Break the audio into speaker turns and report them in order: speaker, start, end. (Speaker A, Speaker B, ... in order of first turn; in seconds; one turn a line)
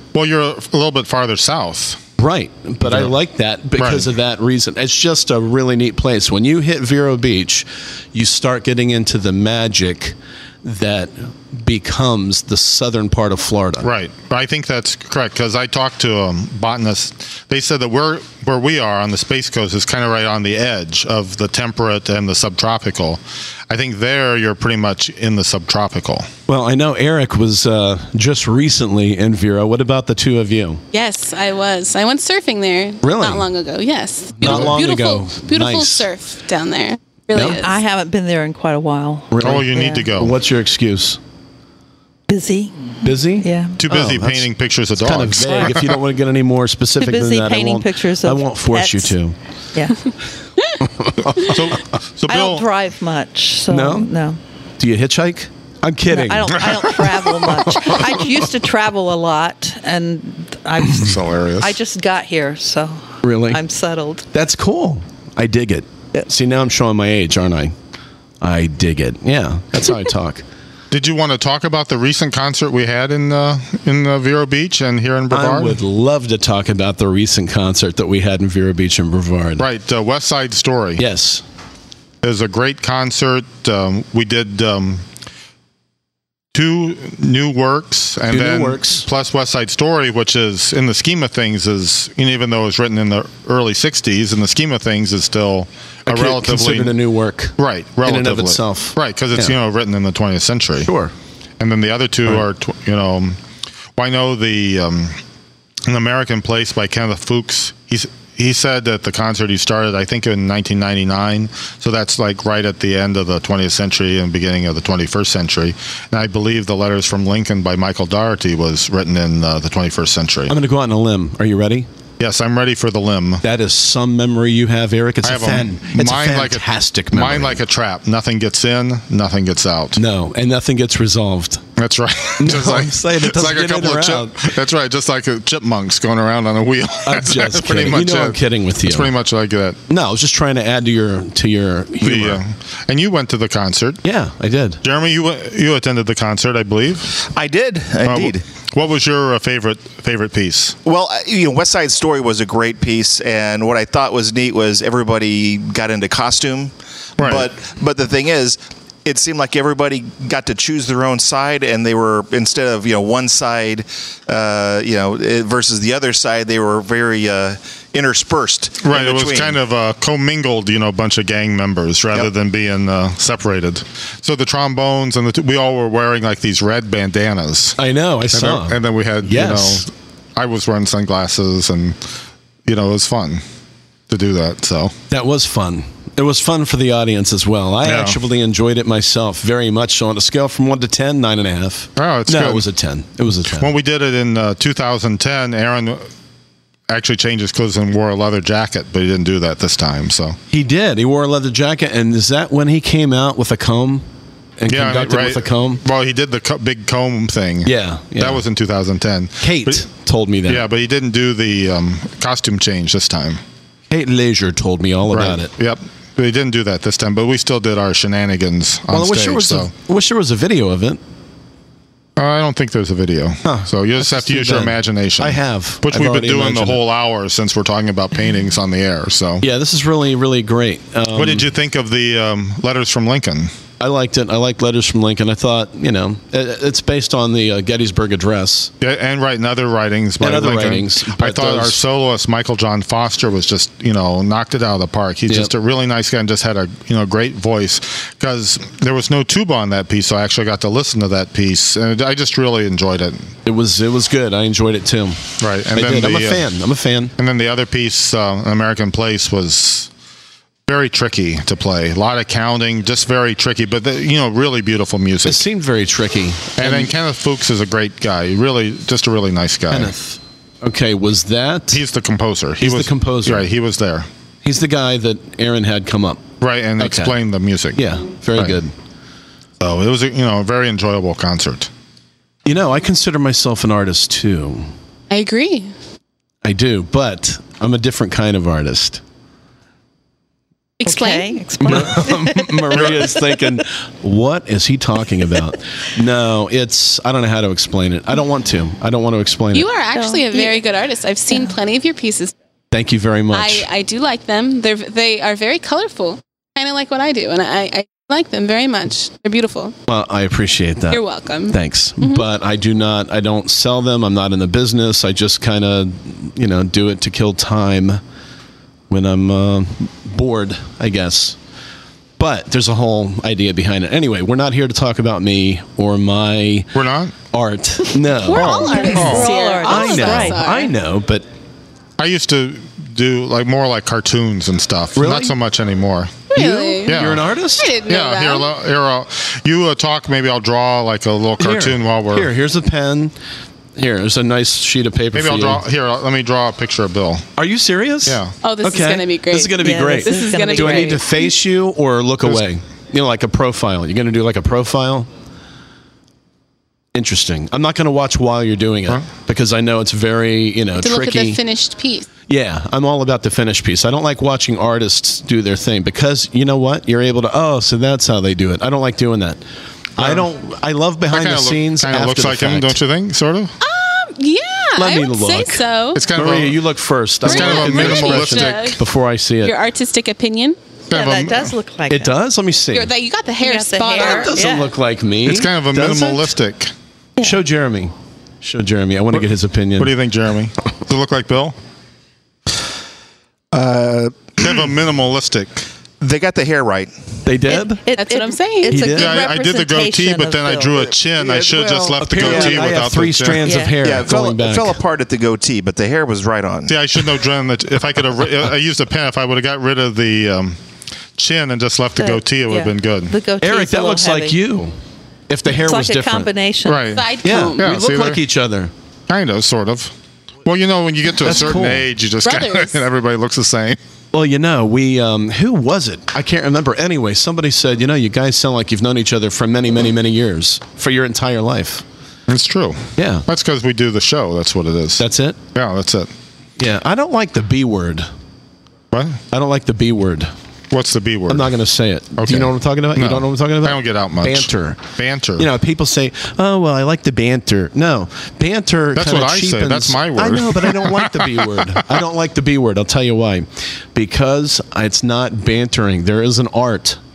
Speaker A: 0.1-2.0
Speaker B: 2.2-13.9
Speaker A: 2.8-3.1
Speaker A: 3.8-4.1
Speaker A: 13.8-26.3
Speaker B: 26.5-30.8
Speaker C: 30.9-37.8
Speaker B: 33.0-33.5
Speaker B: 34.4-36.1
Speaker A: 34.4-34.8
Speaker B: 37.3-37.6
Speaker D: 37.4-40.1
Speaker B: 39.3-41.2
Speaker A: 39.4-40.4
Speaker D: 42.3-43.8
Speaker B: 43.0-44.5
Speaker A: 43.8-46.0
Speaker B: 45.0-49.3
Speaker D: 45.4-45.8
Speaker D: 47.0-49.1
Speaker D: 49.7-50.0
Speaker B: 50.8-51.8
Speaker A: 51.2-52.7
Speaker D: 52.3-54.4
Speaker B: 53.7-54.1
Speaker B: 54.8-58.3
Speaker D: 56.1-64.3
Speaker A: 60.9-61.8
Speaker B: 63.2-63.6
Speaker B: 64.3-67.7
Speaker B: 68.4-70.4
Speaker A: 70.9-75.8
Speaker B: 75.3-79.6
Speaker A: 79.6-81.0
Speaker B: 81.0-81.4
Speaker A: 82.2-85.0
Speaker A: 86.5-97.0
Speaker B: 88.3-89.1
Speaker B: 96.0-99.5
Speaker A: 97.6-100.9
Speaker B: 100.8-101.1
Speaker A: 101.6-103.4
Speaker A: 104.0-105.2
Speaker A: 105.9-120.5
Speaker B: 120.5-121.9
Speaker A: 122.2-123.4
Speaker B: 123.4-127.6
Speaker A: 125.2-130.0
Speaker B: 129.9-131.6
Speaker A: 131.8-139.8
Speaker B: 132.4-134.4
Speaker B: 137.0-139.1
Speaker B: 139.9-142.4
Speaker A: 142.0-144.0
Speaker B: 144.0-144.8
Speaker A: 144.8-147.1
Speaker E: 147.2-148.4
Speaker A: 148.0-150.8
Speaker E: 150.8-169.5
Speaker A: 157.2-157.5
Speaker A: 168.8-177.8
Speaker B: 177.8-179.8
Speaker A: 178.3-182.0
Speaker A: 182.7-183.4
Speaker A: 184.1-184.9
Speaker B: 185.1-193.7
Speaker A: 187.8-188.2
Speaker A: 191.9-192.7
Speaker A: 193.5-196.0
Speaker A: 196.9-200.4
Speaker B: 200.5-204.0
Speaker B: 204.6-205.8
Speaker A: 204.7-209.8
Speaker B: 207.6-208.4
Speaker B: 209.4-210.6
Speaker A: 210.4-213.4
Speaker B: 213.9-215.5
Speaker A: 215.1-219.7
Speaker B: 218.9-221.0
Speaker A: 222.2-229.4
Speaker B: 223.4-226.8
Speaker B: 229.4-231.4
Speaker A: 231.1-233.5
Speaker B: 233.8-238.7
Speaker A: 238.8-253.3
Speaker B: 240.2-241.8
Speaker B: 253.4-257.1
Speaker A: 255.4-256.5
Speaker A: 257.2-259.9
Speaker A: 260.7-265.4
Speaker B: 265.2-266.9
Speaker A: 266.6-269.9
Speaker B: 269.7-271.8
Speaker A: 271.7-274.1
Speaker B: 272.6-273.5
Speaker B: 274.4-276.2
Speaker A: 276.4-278.6
Speaker B: 276.8-277.1
Speaker B: 277.8-278.7
Speaker A: 279.6-281.7
Speaker B: 282.4-284.7
Speaker C: 285.1-285.7
Speaker B: 286.4-289.0
Speaker C: 290.8-291.4
Speaker D: 290.8-293.2
Speaker B: 291.6-299.7
Speaker C: 299.5-302.3
Speaker D: 299.9-300.5
Speaker B: 302.7-303.6
Speaker C: 303.3-309.7
Speaker B: 309.9-318.0
Speaker C: 310.9-312.3
Speaker B: 318.9-321.4
Speaker B: 322.2-326.7
Speaker A: 326.7-327.1
Speaker B: 327.3-331.2
Speaker C: 328.1-330.7
Speaker D: 328.3-330.5
Speaker A: 328.9-329.3
Speaker A: 332.0-336.2
Speaker B: 334.9-335.3
Speaker C: 336.3-338.5
Speaker B: 336.3-337.7
Speaker A: 336.9-337.3
Speaker A: 337.8-342.3
Speaker B: 341.4-343.1
Speaker B: 343.8-345.6
Speaker A: 345.1-347.3
Speaker B: 347.4-355.1
Speaker A: 348.0-348.3
Speaker C: 348.4-351.3
Speaker D: 349.6-351.0
Speaker B: 356.9-361.4
Speaker C: 360.8-362.1
Speaker B: 362.3-369.4
Speaker B: 370.0-372.8
Speaker A: 370.0-370.3
Speaker A: 371.1-373.5
Speaker C: 373.6-376.1
Speaker B: 374.8-379.5
Speaker A: 375.9-376.6
Speaker A: 377.2-378.8
Speaker C: 377.2-378.8
Speaker C: 379.4-380.6
Speaker A: 380.9-381.5
Speaker D: 380.9-382.1
Speaker B: 381.9-382.9
Speaker C: 382.7-384.4
Speaker D: 383.4-384.7
Speaker B: 383.9-386.3
Speaker A: 385.2-386.7
Speaker B: 387.2-389.9
Speaker A: 389.8-391.6
Speaker E: 393.5-394.6
Speaker A: 394.4-395.6
Speaker E: 396.0-396.9
Speaker B: 397.2-397.8
Speaker D: 397.5-400.8
Speaker C: 397.9-398.8
Speaker B: 398.7-399.2
Speaker A: 398.9-403.6
Speaker E: 401.2-402.8
Speaker B: 402.0-404.8
Speaker D: 403.4-403.8
Speaker E: 403.8-406.8
Speaker A: 406.7-410.6
Speaker A: 411.2-413.1
Speaker D: 412.0-414.4
Speaker B: 413.4-414.7
Speaker B: 415.3-416.3
Speaker D: 415.5-416.9
Speaker A: 416.6-418.2
Speaker C: 416.9-417.7
Speaker B: 417.2-418.7
Speaker A: 419.1-419.9
Speaker A: 420.4-423.8
Speaker B: 421.2-421.9
Speaker C: 422.2-422.8
Speaker B: 424.1-431.8
Speaker A: 432.3-436.1
Speaker B: 432.9-433.3
Speaker B: 435.0-435.4
Speaker B: 436.6-438.1
Speaker A: 438.9-439.2
Speaker B: 439.3-440.3
Speaker A: 440.7-441.5
Speaker B: 441.3-444.9
Speaker A: 442.2-445.5
Speaker B: 445.4-457.0
Speaker A: 448.9-451.8